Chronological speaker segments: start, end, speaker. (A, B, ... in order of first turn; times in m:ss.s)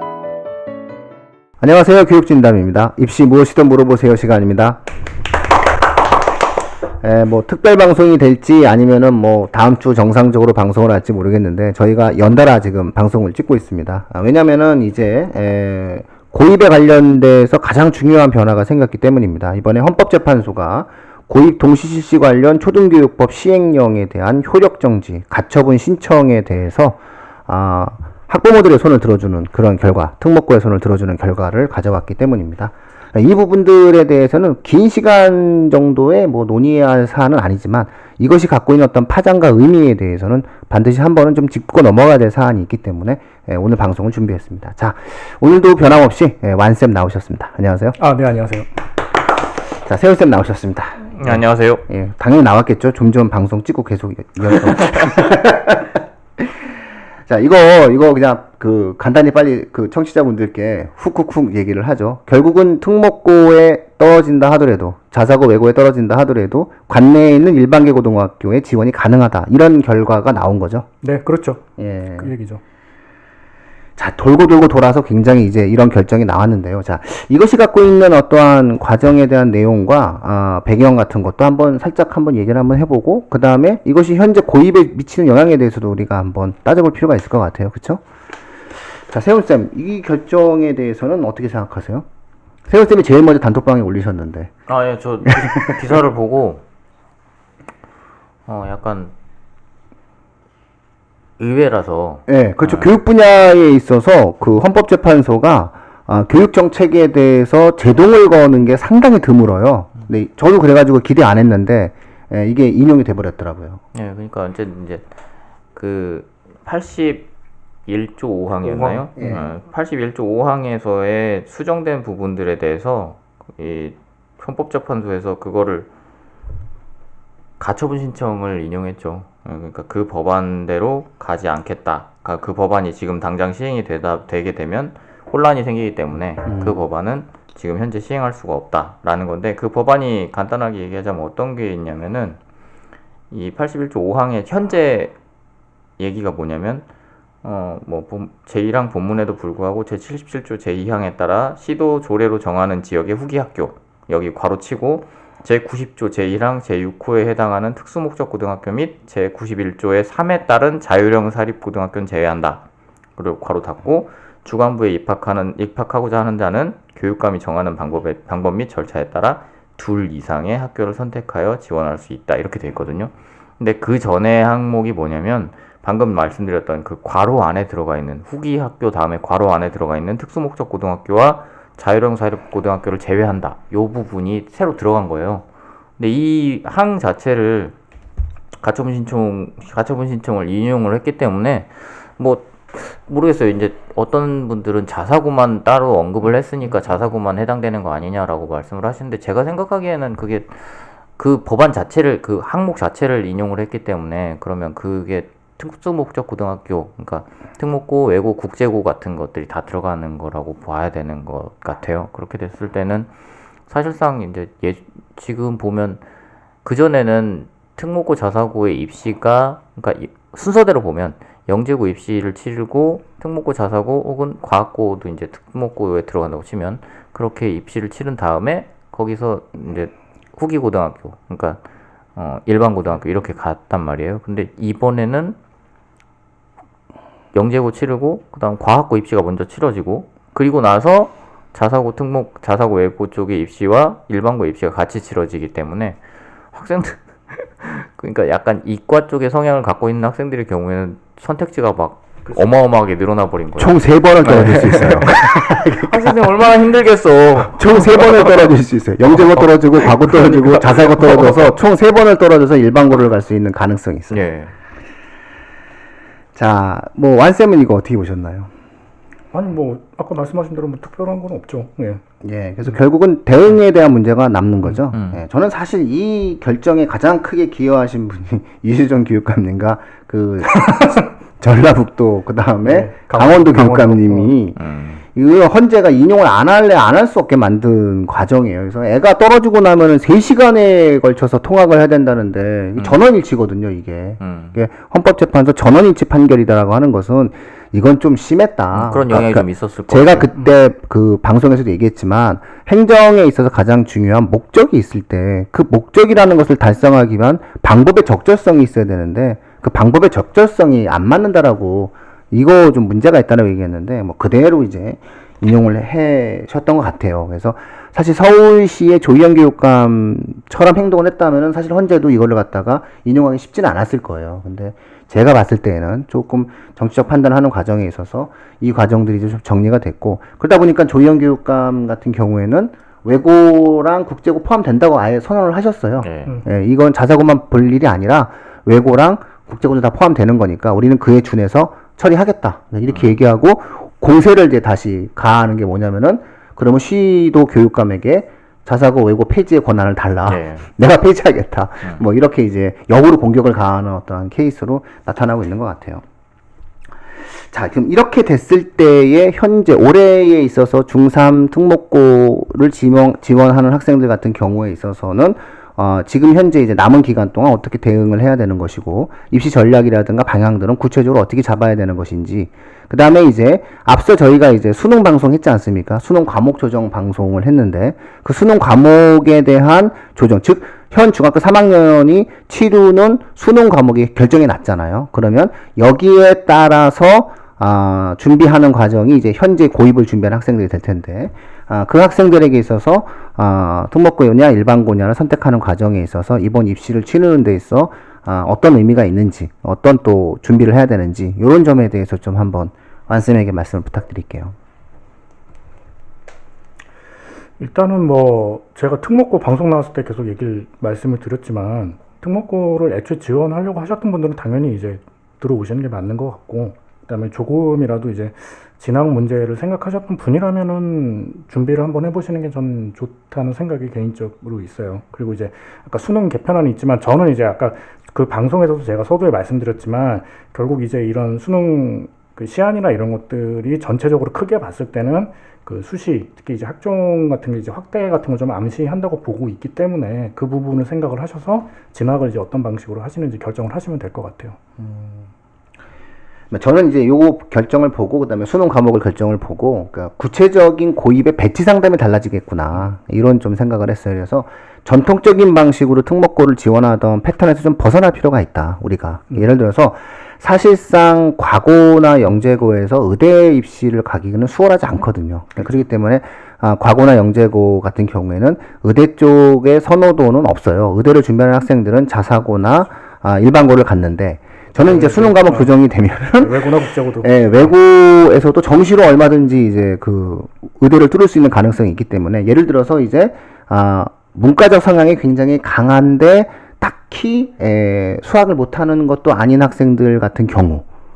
0:01.6-0:04.8 A
0:07.0-0:48.0 A
0:48.0-0:48.7 B
0:49.7-0:56.0 A
0:51.1-0:51.8 C
0:57.3-1:10.8 A
1:11.0-1:12.6 B
1:11.8-1:12.3 A
1:14.0-1:28.0 A
1:29.1-1:32.0 A
1:32.7-1:34.5 A
1:34.7-1:36.6 C
1:35.3-1:35.8 A
1:38.5-1:39.1 C
1:41.4-1:43.0 C
1:42.3-1:53.8 A
1:53.9-1:55.0 C
1:55.7-1:57.3 C
1:57.9-2:05.9 C
1:58.7-1:59.4 A
2:07.6-2:22.4 C
2:16.4-2:16.8 A
2:23.3-2:25.1 C
2:26.0-2:26.9 C
2:27.4-2:42.6 C
2:43.2-3:05.4 C
3:06.0-3:07.7 C
3:08.6-3:33.1 C
3:33.7-3:36.0 C
3:36.6-3:51.6 C
3:52.2-3:55.4 C
3:57.3-4:06.0 C
4:06.5-4:18.6 C
4:13.6-4:16.1 A
4:17.5-4:24.2 A
4:19.1-4:21.5 C
4:24.1-4:24.5 C
4:26.3-4:28.5 A
4:29.3-4:32.0 B
4:32.2-4:44.6 A
4:34.9-4:35.2 C
4:40.6-4:40.9 B
4:42.6-4:44.3 B
4:44.6-4:45.0 C
4:45.1-5:56.0 A
4:52.8-4:53.0 C
4:54.2-4:54.5 C
4:58.7-5:00.3 C
5:36.0-5:36.3 C
5:42.9-5:43.2 C
5:50.2-5:50.6 C
5:57.4-6:44.5 A
6:47.6-7:24.6 B
7:24.8-7:25.3 A
7:26.5-8:10.8 A
7:54.8-7:55.7 B
7:56.4-7:57.3 B